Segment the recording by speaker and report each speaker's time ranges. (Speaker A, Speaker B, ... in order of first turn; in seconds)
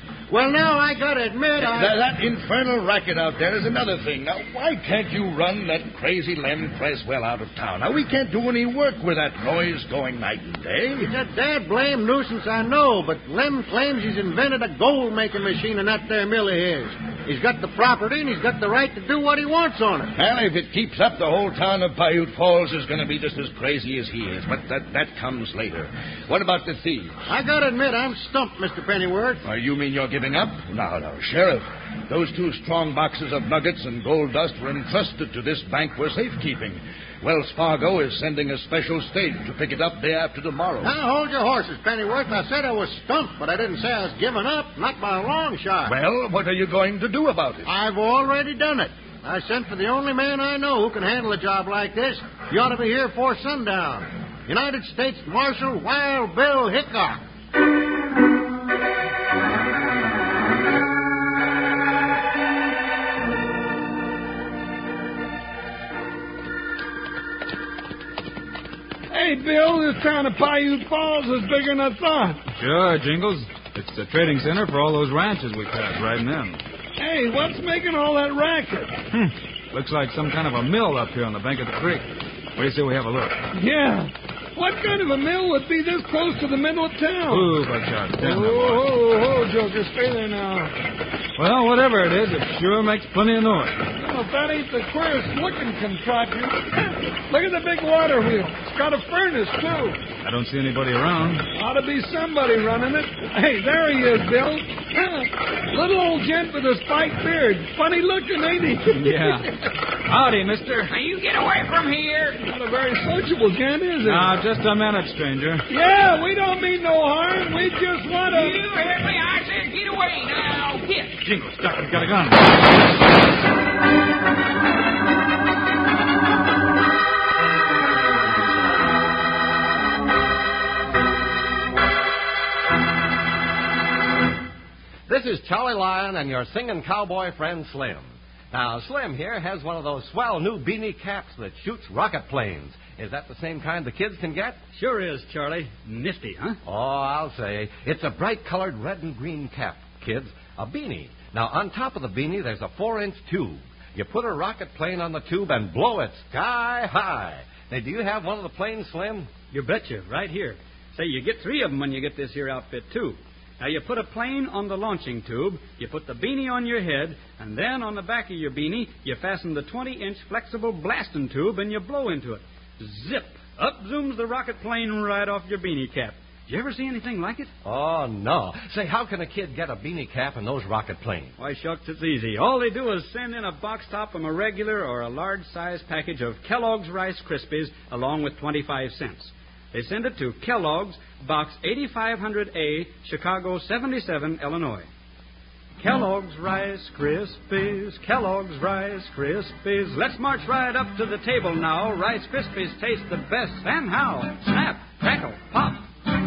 Speaker A: 0.3-2.0, 11.1-20.1, 27.3-29.4, 40.8-46.0, 47.6-57.2
Speaker B: 1.6-11.1, 20.2-27.2, 29.4-41.0, 45.9-47.7
Speaker C: 69.1-72.4, 77.0-79.0, 83.5-87.6, 88.2-90.8, 93.9-100.0, 101.5-109.5, 112.4-114.4, 115.7-118.6
Speaker D: 72.6-76.6, 79.1-83.4, 87.3-88.9, 91.4-93.8, 100.2-101.5, 108.9-110.9, 114.0-115.7, 121.2-122.6
Speaker E: 110.9-112.4, 118.3-121.2
Speaker F: 135.1-144.6, 146.7-159.3, 177.6-181.3
Speaker G: 144.8-146.6, 159.5-177.5, 181.4-194.9, 195.8-205.8